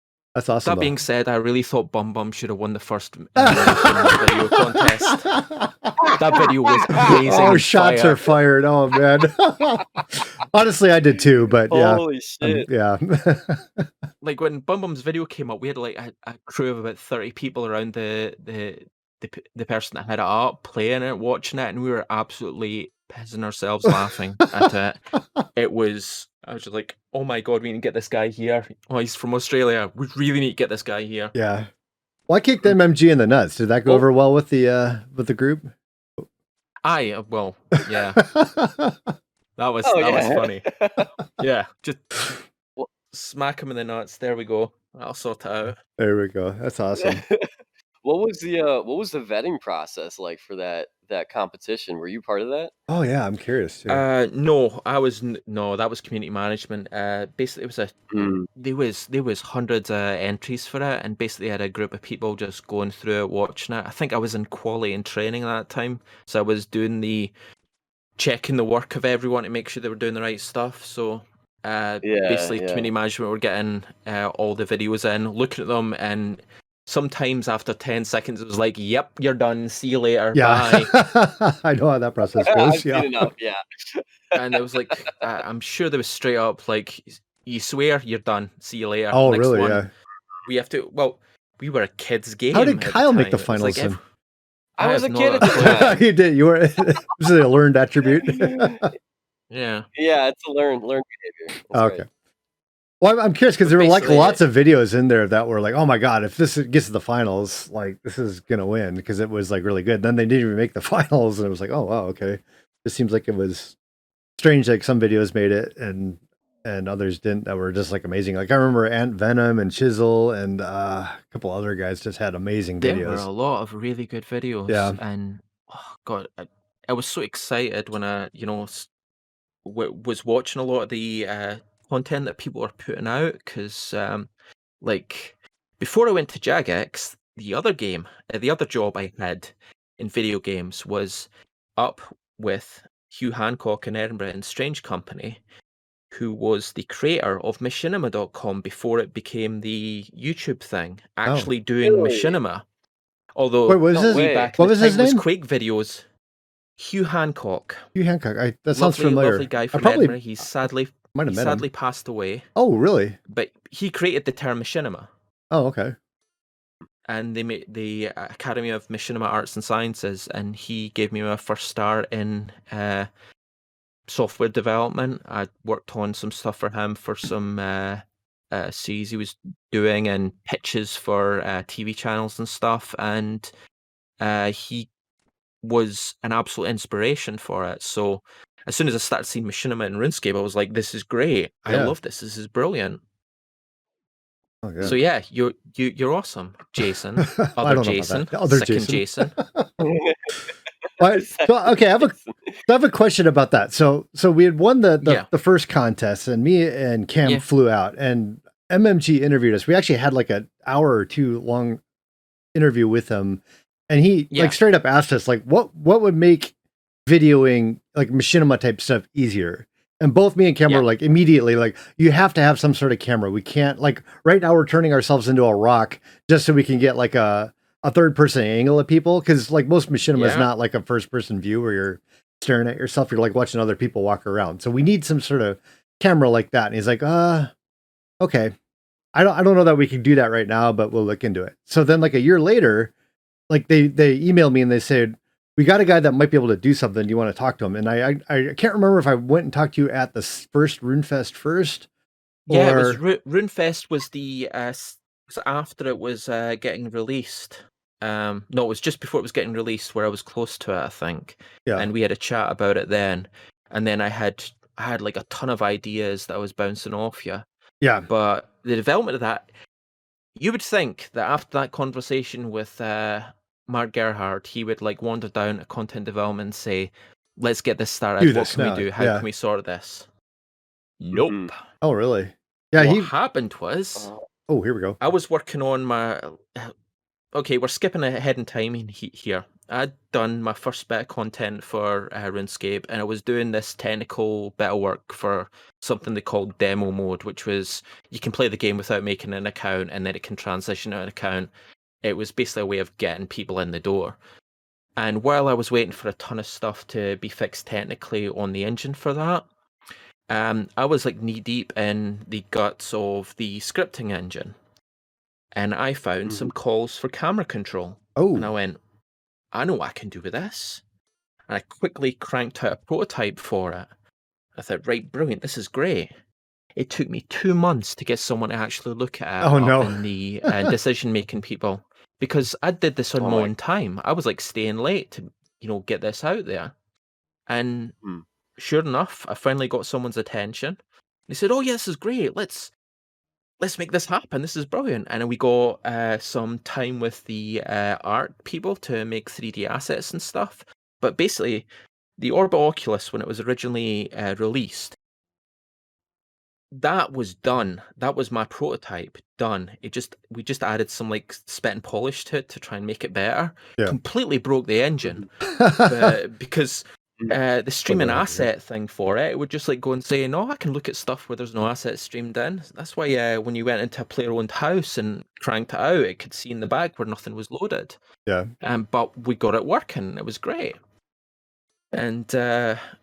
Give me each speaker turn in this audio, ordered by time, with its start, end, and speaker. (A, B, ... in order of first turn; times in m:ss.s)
0:00.3-0:00.9 A
0:00.6-0:05.3 B
0:03.4-0:05.9 A
0:06.1-0:08.2 B
0:07.0-0:13.9 A
0:07.1-0:07.6 C
0:11.7-0:12.7 C
0:14.2-0:25.0 B
0:25.5-0:31.3 B
0:31.3-0:31.7 A
0:32.3-0:36.2 A
0:36.8-0:38.2 B
0:38.2-0:39.1 A
0:39.6-0:40.7 B
0:39.8-0:41.1 C
0:41.4-0:42.3 B
0:43.1-0:45.8 B
0:46.0-0:47.2 A
0:47.0-0:47.5 C
0:48.0-0:52.7 C
0:52.9-0:54.0 A
0:53.9-0:57.9 B
0:58.1-0:58.5 C
0:58.5-1:07.3 B
1:08.2-1:20.9 B
1:12.0-1:12.9 C
1:20.3-1:23.3 A
1:22.4-1:24.8 C
1:24.3-1:29.8 B
1:29.1-1:29.9 A
1:30.4-1:34.0 B
1:32.5-1:34.0 A
1:34.8-1:36.0 C
1:34.8-1:36.0 B
1:35.4-1:38.9 A
1:38.2-1:38.9 C
1:39.5-1:39.9 B
1:39.9-1:42.0 C
1:41.7-1:42.0 A
1:43.0-1:53.8 A
1:43.6-1:44.4 B
1:44.0-1:44.3 C
1:54.4-2:03.2 A
2:02.8-2:08.9 B
2:04.7-2:05.0 A
2:09.6-2:14.3 B
2:14.8-2:25.4 B
2:26.1-2:32.6 B
2:31.8-2:32.4 C
2:33.4-2:36.0 B
2:33.7-2:35.2 A
2:33.9-2:34.6 C
2:36.8-2:37.8 B
2:37.9-2:40.2 A
2:38.7-2:42.4 B
2:41.1-2:41.6 A
2:42.6-2:43.2 A
2:43.3-2:45.1 B
2:45.5-2:45.9 A
2:47.1-2:53.1 B
2:54.1-3:03.5 B
3:04.2-3:04.9 B
3:05.6-3:13.0 B
3:11.7-3:11.9 A
3:14.6-3:15.0 A
3:14.8-3:19.4 B
3:17.2-3:19.8 A
3:19.8-3:22.6 C
3:21.0-3:22.1 A
3:22.7-3:31.8 A
3:25.0-3:25.3 B
3:32.5-3:36.5 A
3:34.3-3:34.6 B
3:37.0-3:57.5 A
3:50.1-3:50.5 B
3:58.2-3:58.5 A
3:59.1-4:02.9 A
4:03.5-4:11.9 A
4:12.5-4:13.0 A
4:12.5-4:27.4 B
4:27.8-4:28.1 A
4:28.0-4:29.5 B
4:30.4-4:40.1 B
4:38.2-4:39.2 A
4:41.0-4:41.6 B
4:41.1-4:41.5 C
4:41.8-4:43.1 A
4:42.8-4:44.1 B
4:44.0-4:44.2 C
4:44.5-4:45.0 A
4:45.0-4:46.7 B
4:47.3-5:01.5 B
5:02.0-5:04.2 B
5:05.0-5:09.4 B
5:10.3-5:14.5 B
5:15.5-5:18.8 B
5:18.2-5:18.5 A
5:19.5-5:20.8 B
5:21.5-5:23.9 B
5:24.6-5:26.1 B
5:26.8-5:36.7 B
5:29.4-5:30.7 A
5:33.2-5:33.5 C
5:37.5-5:38.0 B
5:38.6-5:42.7 B
5:43.6-5:51.7 B
5:52.2-5:55.0 B
5:56.7-6:05.3 B
6:05.5-6:06.1 A
6:05.8-6:18.0 B
6:07.9-6:08.5 A
6:18.6-6:20.8 B
6:21.9-6:22.8 B